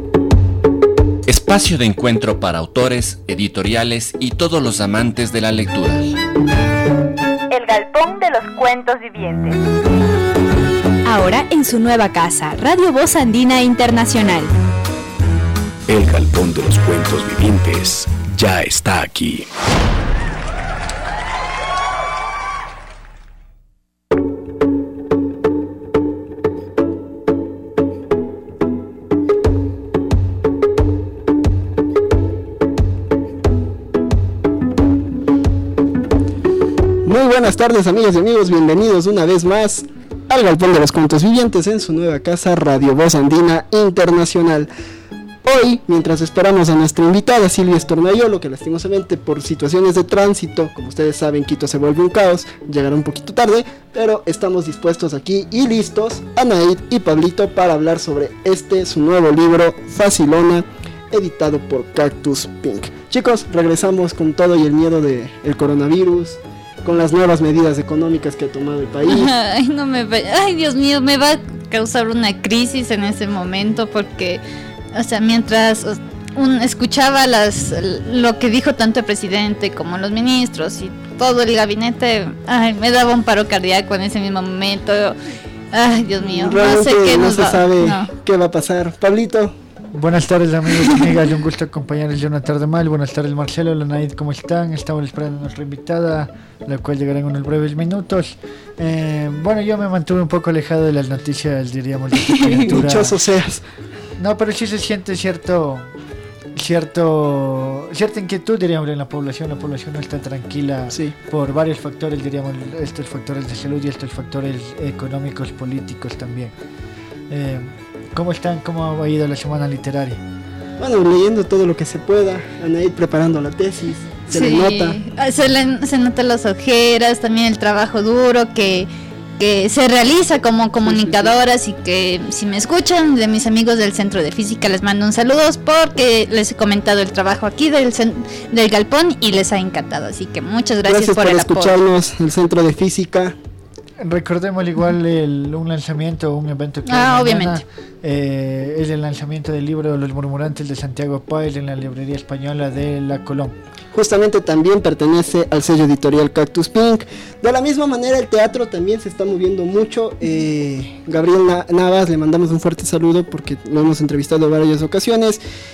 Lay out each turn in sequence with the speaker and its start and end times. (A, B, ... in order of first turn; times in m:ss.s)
0:01.2-0:06.2 A
0:07.5-0:09.6 B
0:11.0-0:14.5 C
0:15.9-0:19.5 D
0:37.0-0:44.7 E
0:45.4-1:09.3 E
1:09.0-1:14.4 F
1:14.9-1:25.2 F
1:25.7-1:28.1 F
1:26.2-1:29.5 E
1:29.9-1:43.2 G
1:42.6-1:43.6 E
1:44.2-1:45.9 G
1:46.5-1:56.5 G
1:57.3-2:00.2 G
2:00.8-2:05.0 E
2:04.3-2:08.9 F
2:09.4-2:21.8 F
2:10.8-2:11.3 E
2:20.8-2:23.4 E
2:24.0-2:33.6 G
2:26.8-2:27.6 F
2:33.9-2:45.4 E